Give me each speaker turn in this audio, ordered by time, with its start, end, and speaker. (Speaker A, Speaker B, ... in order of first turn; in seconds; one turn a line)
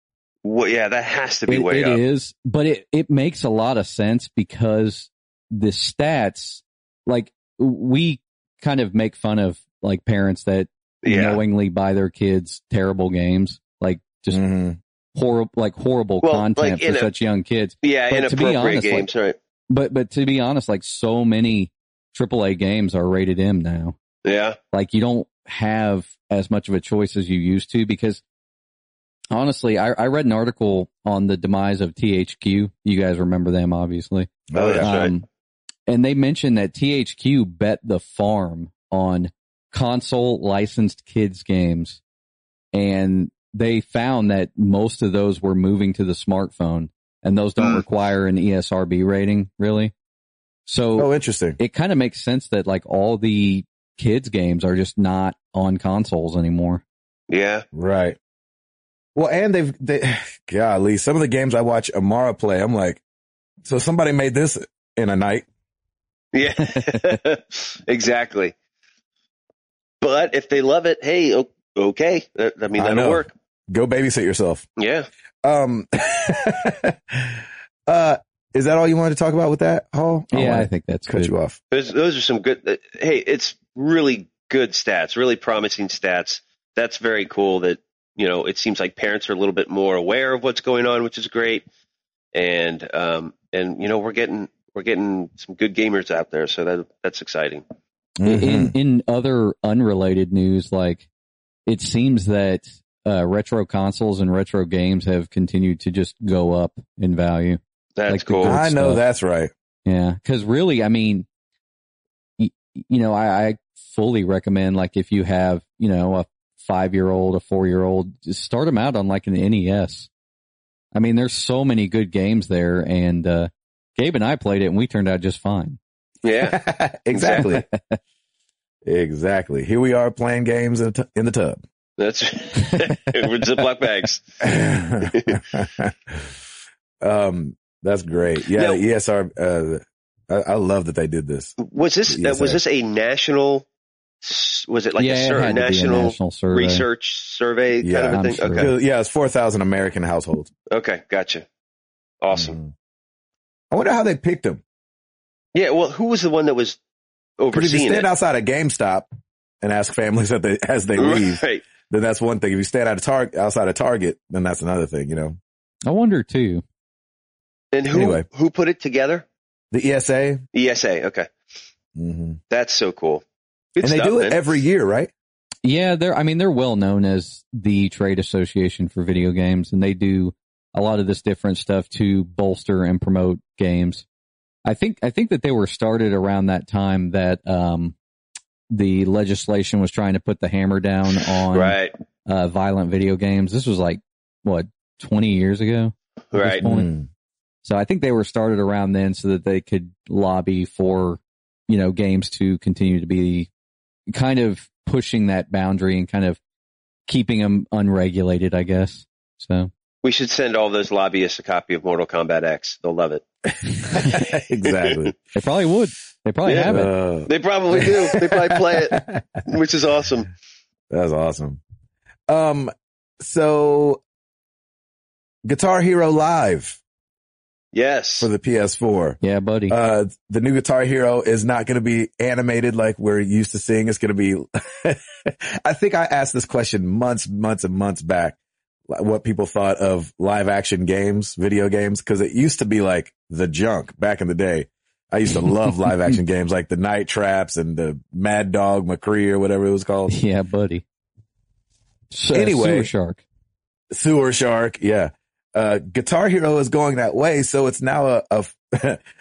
Speaker A: 0.4-2.0
Speaker B: 1.5-14.4
Speaker A: 11.0-11.4
Speaker C: 14.3-14.8
Speaker B: 15.1-19.1
Speaker A: 16.2-17.1
Speaker A: 17.8-19.4
Speaker B: 19.7-23.9
Speaker A: 24.2-24.6
Speaker B: 24.7-28.2
Speaker B: 29.3-35.3
Speaker C: 34.5-34.9
Speaker A: 34.5-35.1
Speaker B: 35.9-42.0
Speaker B: 42.7-49.9
Speaker A: 47.6-47.8
Speaker B: 50.7-56.8
Speaker C: 51.0-51.6
Speaker A: 57.3-57.6
Speaker C: 57.7-58.2
Speaker C: 59.1-63.0
Speaker C: 63.6-65.5
Speaker A: 66.3-68.5
Speaker B: 66.8-67.2
Speaker A: 70.0-73.3
Speaker C: 72.8-74.7
Speaker A: 74.8-75.1
Speaker C: 75.4-81.6
Speaker B: 80.3-81.3
Speaker A: 81.7-91.6
Speaker A: 92.3-97.6
Speaker C: 98.2-98.7
Speaker B: 98.2-101.1
Speaker B: 101.7-109.0
Speaker A: 108.0-108.6
Speaker C: 108.4-109.5
Speaker B: 109.9-111.3
Speaker B: 112.4-120.1
Speaker B: 120.9-125.8
Speaker A: 126.2-126.6
Speaker C: 126.4-127.6
Speaker A: 127.1-127.6
Speaker B: 127.4-128.0
Speaker C: 128.8-131.6
Speaker A: 132.0-134.2
Speaker C: 134.4-136.3
Speaker A: 135.1-135.4
Speaker C: 137.0-141.6
Speaker A: 138.6-138.8
Speaker A: 141.6-143.7
Speaker C: 142.1-142.6
Speaker A: 144.2-148.7
Speaker B: 145.0-146.9
Speaker C: 147.8-150.5
Speaker B: 148.1-148.7
Speaker A: 150.7-151.4
Speaker A: 152.2-152.6
Speaker C: 152.3-152.7
Speaker C: 153.7-154.6
Speaker A: 155.6-156.8
Speaker A: 157.4-158.1
Speaker C: 157.5-159.1
Speaker C: 159.6-165.4
Speaker A: 161.0-161.6
Speaker B: 165.9-166.6
Speaker A: 167.7-169.2
Speaker C: 167.9-168.2
Speaker C: 169.7-170.4
Speaker A: 170.5-171.3
Speaker C: 171.9-172.4
Speaker A: 172.5-173.2
Speaker A: 173.8-174.5
Speaker C: 173.8-175.1
Speaker B: 175.6-184.1
Speaker B: 184.6-187.9
Speaker B: 188.7-196.9
Speaker A: 191.5-191.9
Speaker A: 196.3-196.6
Speaker C: 196.6-197.1
Speaker B: 197.6-203.5
Speaker B: 204.1-206.4
Speaker B: 207.1-209.7
Speaker A: 210.0-213.2
Speaker A: 213.8-215.1
Speaker C: 213.9-215.1
Speaker B: 213.9-214.2
Speaker B: 215.3-216.9
Speaker A: 216.4-220.3
Speaker C: 216.7-219.2
Speaker C: 220.9-221.6
Speaker C: 222.3-224.0
Speaker C: 225.4-226.8
Speaker A: 227.7-228.3
Speaker C: 228.2-238.4
Speaker B: 229.2-229.8
Speaker C: 238.9-250.1
Speaker B: 250.1-250.8
Speaker B: 252.1-253.2
Speaker C: 252.3-252.9
Speaker C: 253.9-259.0